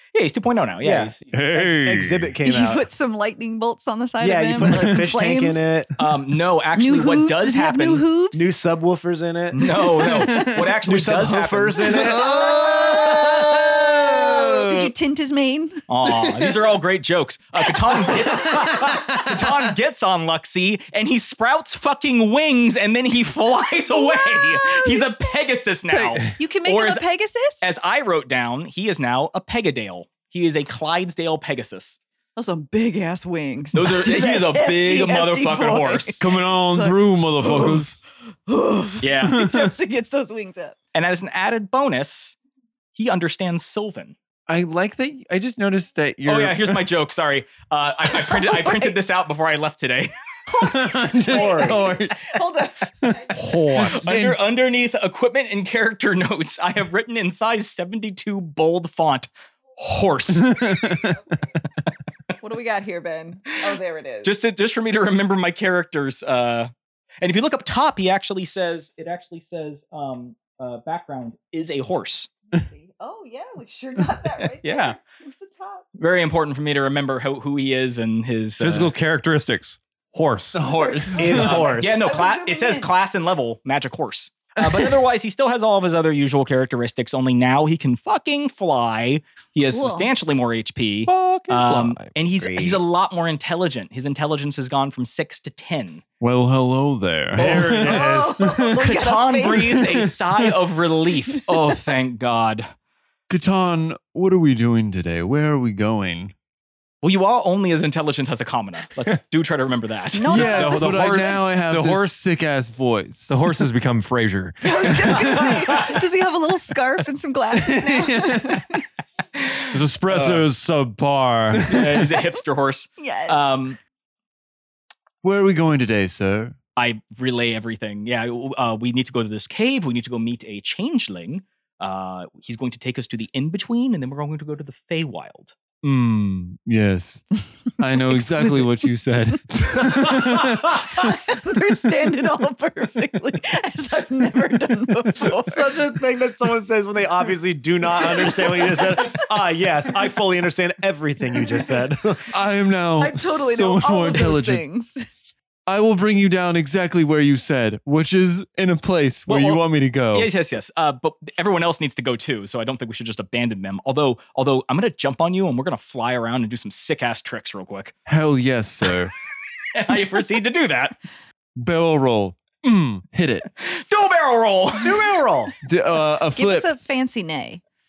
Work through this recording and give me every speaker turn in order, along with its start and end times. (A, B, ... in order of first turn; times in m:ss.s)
0:00.1-0:01.5 A
0:00.8-0:02.8 B
0:01.3-0:02.4 C
0:02.4-0:05.8 D
0:04.2-0:05.9 B
0:04.6-0:05.0 C
0:06.0-0:08.0 A
0:06.8-0:08.5 D
0:08.3-0:09.8 B
0:09.5-0:12.1 A
0:10.0-0:10.6 D
0:10.0-0:10.8 C
0:10.8-0:14.4 B
0:12.0-0:16.5 D
0:12.0-0:12.4 C
0:13.1-0:13.5 C
0:15.9-0:27.0 A
0:17.8-0:19.0 D
0:23.9-0:25.2 D
0:25.9-0:26.2 C
0:26.4-0:27.6 D
0:27.6-0:32.0 A
0:32.4-0:37.8 D
0:33.7-0:36.3 A
0:36.2-0:38.0 C
0:38.5-0:40.8 D
0:39.0-0:39.5 A
0:39.3-0:39.6 C
0:40.9-0:42.4 A
0:42.9-0:44.2 A
0:44.5-0:46.9 C
0:46.2-0:50.1 A
0:48.3-0:49.0 D
0:50.5-0:53.3 D
0:50.6-0:52.3 C
0:51.3-0:51.8 B
0:53.0-0:54.4 C
0:53.3-0:54.2 E
0:53.8-1:01.0 A
1:00.4-1:01.2 C
1:02.4-1:04.3 D
1:04.2-1:12.3 A
1:12.5-1:15.8 D
1:14.3-1:15.0 A
1:16.0-1:18.9 A
1:18.6-1:20.6 E
1:20.5-1:21.8 C
1:20.7-1:22.9 D
1:21.2-1:22.1 B
1:21.4-1:36.0 A
1:29.7-1:30.1 D
1:31.0-1:32.1 E
1:32.4-1:32.8 C
1:36.2-1:38.8 C
1:37.4-1:42.7 A
1:37.4-1:38.4 B
1:37.8-1:40.1 D
1:39.8-1:40.5 C
1:43.3-1:46.3 C
1:47.0-1:50.8 A
1:50.1-1:51.4 D
1:50.2-1:53.4 C
1:50.3-1:52.2 E
1:53.3-1:55.5 E
1:54.6-1:58.8 D
1:57.6-1:58.6 C
1:59.7-2:01.8 E
2:00.1-2:00.4 C
2:01.6-2:02.0 C
2:01.6-2:03.8 A
2:03.0-2:03.6 D
2:05.2-2:06.6 C
2:06.8-2:15.6 A
2:15.8-2:20.8 C
2:18.1-2:18.7 D
2:19.7-2:26.0 D
2:25.2-2:32.2 B
2:28.0-2:29.2 D
2:32.3-2:34.6 C
2:33.0-2:35.0 D
2:35.7-2:40.3 C
2:39.3-2:47.9 A
2:48.1-2:49.1 C
2:49.7-2:51.0 A
2:51.6-2:53.5 C
2:53.6-2:55.2 A
2:54.8-2:55.5 B
2:55.6-2:56.7 C
2:56.3-2:57.6 D